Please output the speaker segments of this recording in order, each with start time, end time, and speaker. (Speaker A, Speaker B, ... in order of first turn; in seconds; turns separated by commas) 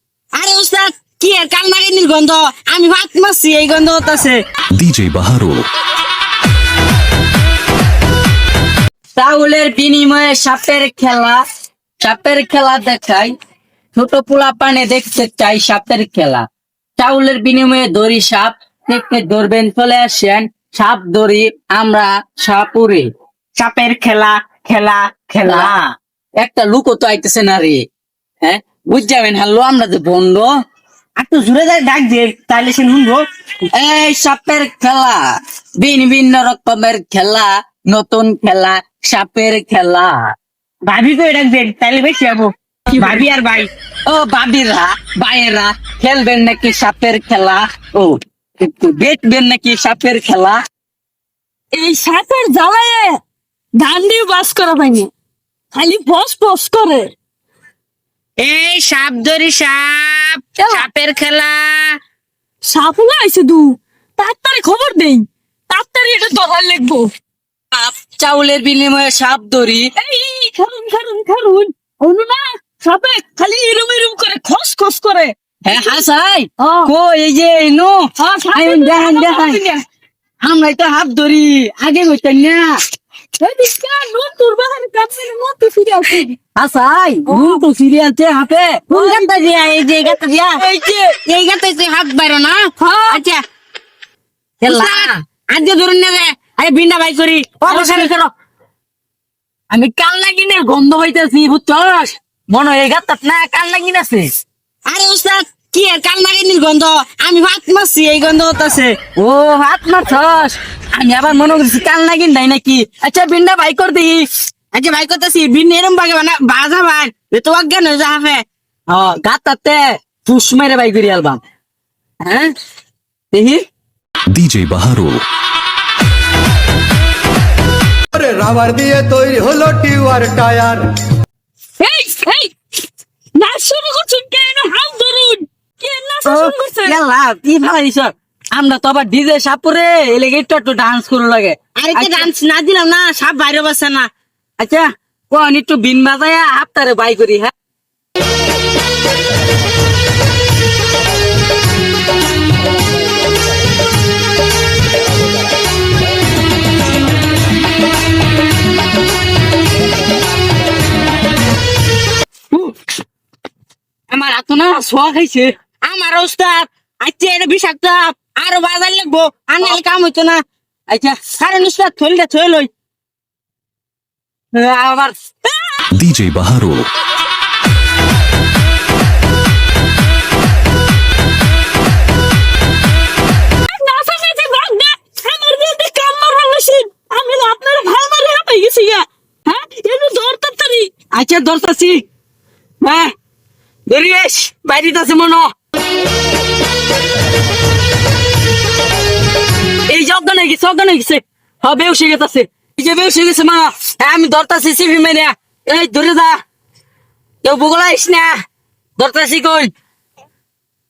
Speaker A: 0.3-4.4, Speaker B: 4.8-5.7, Speaker C: 9.2-11.4, Speaker C: 12.0-13.3, Speaker C: 13.9-16.4, Speaker C: 17.0-23.1, Speaker A: 23.6-25.9, Speaker C: 25.5-25.8, Speaker C: 26.4-27.8, Speaker C: 28.4-30.5, Speaker A: 31.2-33.2, Speaker C: 33.7-35.2, Speaker C: 35.8-40.3, Speaker A: 40.9-43.7, Speaker C: 44.1-50.6, Speaker D: 51.7-53.2, Speaker D: 53.8-55.1, Speaker D: 55.7-57.1, Speaker A: 58.4-62.0, Speaker D: 60.6-60.9, Speaker D: 62.7-67.1, Speaker C: 67.7-69.9, Speaker D: 70.0-75.3, Speaker C: 75.7-79.6, Speaker D: 76.6-76.9, Speaker D: 78.2-79.8, Speaker C: 80.4-82.8, Speaker D: 83.4-86.4, Speaker C: 86.6-89.3, Speaker D: 87.3-87.6, Speaker A: 88.9-90.6, Speaker C: 90.6-91.1, Speaker A: 91.2-93.4, Speaker D: 92.8-93.2, Speaker C: 94.6-95.1, Speaker A: 94.7-98.1, Speaker C: 97.7-98.3, Speaker C: 99.7-104.3, Speaker A: 104.9-109.0, Speaker C: 109.2-114.3, Speaker A: 114.7-118.5, Speaker C: 118.9-121.4, Speaker C: 122.2-122.5, Speaker C: 123.3-123.6, Speaker B: 124.3-125.2, Speaker E: 128.1-130.9, Speaker D: 131.8-132.5, Speaker D: 133.3-137.0, Speaker C: 136.3-142.3, Speaker A: 141.8-144.1, Speaker C: 144.6-147.5, Speaker C: 164.1-165.5, Speaker A: 165.8-170.4, Speaker C: 170.9-171.2, Speaker A: 171.3-172.7, Speaker C: 174.5-175.2, Speaker B: 175.9-176.9, Speaker D: 183.7-190.9, Speaker C: 191.1-192.1, Speaker C: 192.8-193.1, Speaker C: 193.9-195.5, Speaker C: 199.9-206.4, Speaker C: 207.4-208.3, Speaker C: 209.0-209.7